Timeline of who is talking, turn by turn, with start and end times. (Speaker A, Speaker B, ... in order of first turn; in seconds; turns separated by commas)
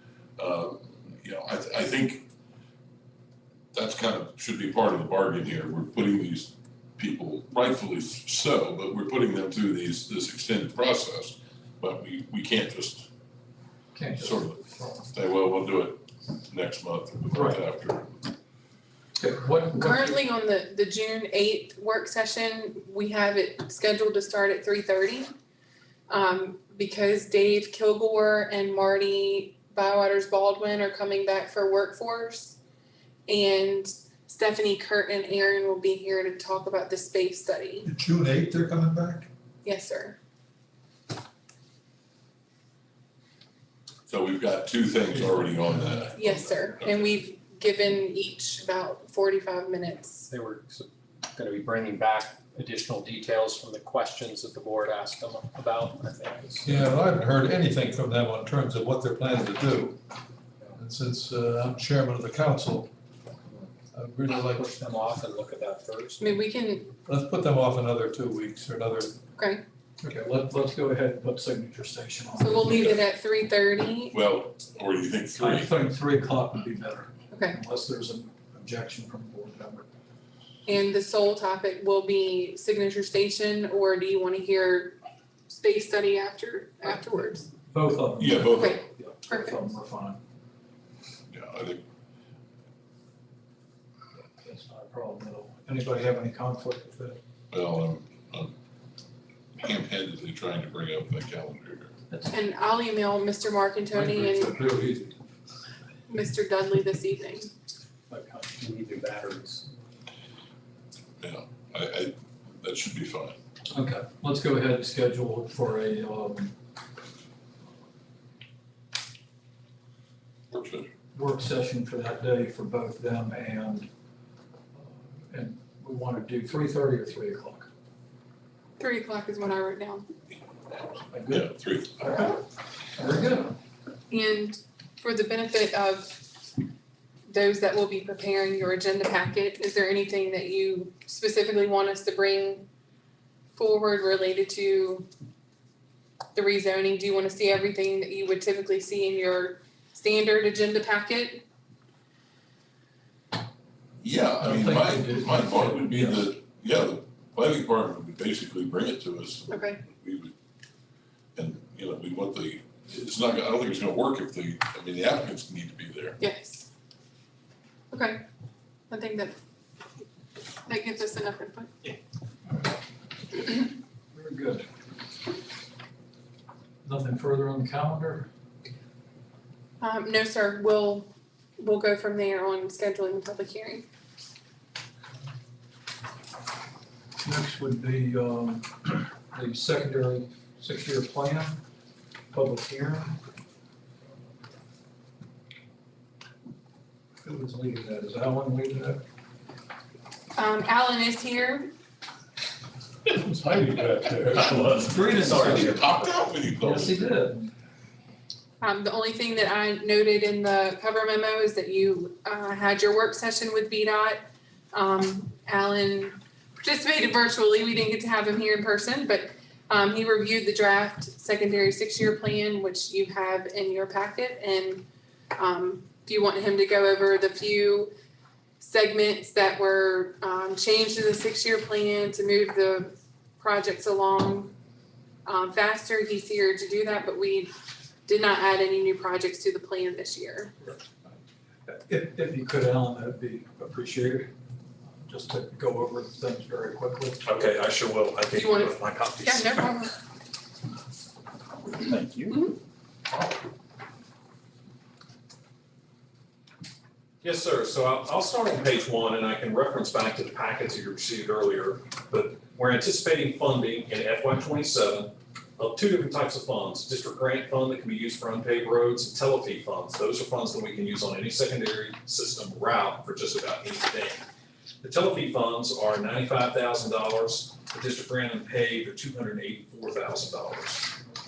Speaker A: 0.4-2.2, Speaker A: 3.7-13.1, Speaker B: 13.9-15.1, Speaker A: 14.2-18.3, Speaker B: 17.3-17.6, Speaker B: 19.1-20.2, Speaker C: 19.7-25.3, Speaker C: 26.1-32.6, Speaker C: 33.3-37.9, Speaker D: 37.9-39.3, Speaker C: 39.6-40.2, Speaker A: 44.1-47.1, Speaker C: 46.1-50.3, Speaker E: 50.3-56.9, Speaker D: 56.6-60.0, Speaker F: 57.2-57.9, Speaker D: 60.8-62.9, Speaker D: 63.9-64.7, Speaker E: 64.2-66.3, Speaker C: 66.2-67.0, Speaker D: 67.0-69.1, Speaker C: 69.4-69.6, Speaker B: 70.0-72.9, Speaker C: 72.4-74.2, Speaker A: 72.7-73.0, Speaker A: 74.1-75.9, Speaker B: 75.3-79.9, Speaker C: 77.3-77.6, Speaker C: 80.7-87.5, Speaker B: 87.7-90.2, Speaker A: 88.2-88.8, Speaker C: 88.5-89.6, Speaker A: 91.3-91.8, Speaker B: 94.4-97.2, Speaker A: 97.5-98.5, Speaker A: 99.5-101.9, Speaker B: 102.1-102.4, Speaker C: 102.3-104.5, Speaker B: 103.9-105.2, Speaker C: 106.1-107.5, Speaker E: 108.1-109.6, Speaker A: 111.2-113.4, Speaker B: 113.7-116.5, Speaker A: 120.5-120.9, Speaker B: 121.1-123.9, Speaker B: 124.7-127.7, Speaker C: 128.8-130.1, Speaker A: 130.7-132.3, Speaker B: 131.1-132.4, Speaker B: 132.9-133.6, Speaker C: 134.1-136.3, Speaker C: 137.3-142.7, Speaker C: 143.5-145.1, Speaker C: 146.3-151.4, Speaker A: 154.0-160.3, Speaker B: 154.4-156.3, Speaker C: 159.5-159.8, Speaker A: 161.3-166.2, Speaker C: 166.2-166.7, Speaker C: 167.9-168.2, Speaker C: 168.9-169.4, Speaker C: 170.7-171.7, Speaker B: 174.1-174.7, Speaker B: 176.8-178.3, Speaker C: 179.8-183.8, Speaker B: 187.2-191.6, Speaker B: 192.3-193.2, Speaker B: 197.2-199.0, Speaker C: 200.3-201.7, Speaker B: 203.1-205.8, Speaker A: 204.6-207.0, Speaker F: 205.2-206.0, Speaker B: 206.6-207.5, Speaker C: 208.6-224.8, Speaker C: 225.3-227.9, Speaker C: 228.6-234.5, Speaker C: 235.2-237.5, Speaker C: 238.1-240.5, Speaker B: 241.7-244.3, Speaker B: 245.0-247.2, Speaker F: 247.2-249.7, Speaker C: 248.3-250.0, Speaker E: 251.8-252.3, Speaker F: 257.2-274.2, Speaker F: 274.8-280.9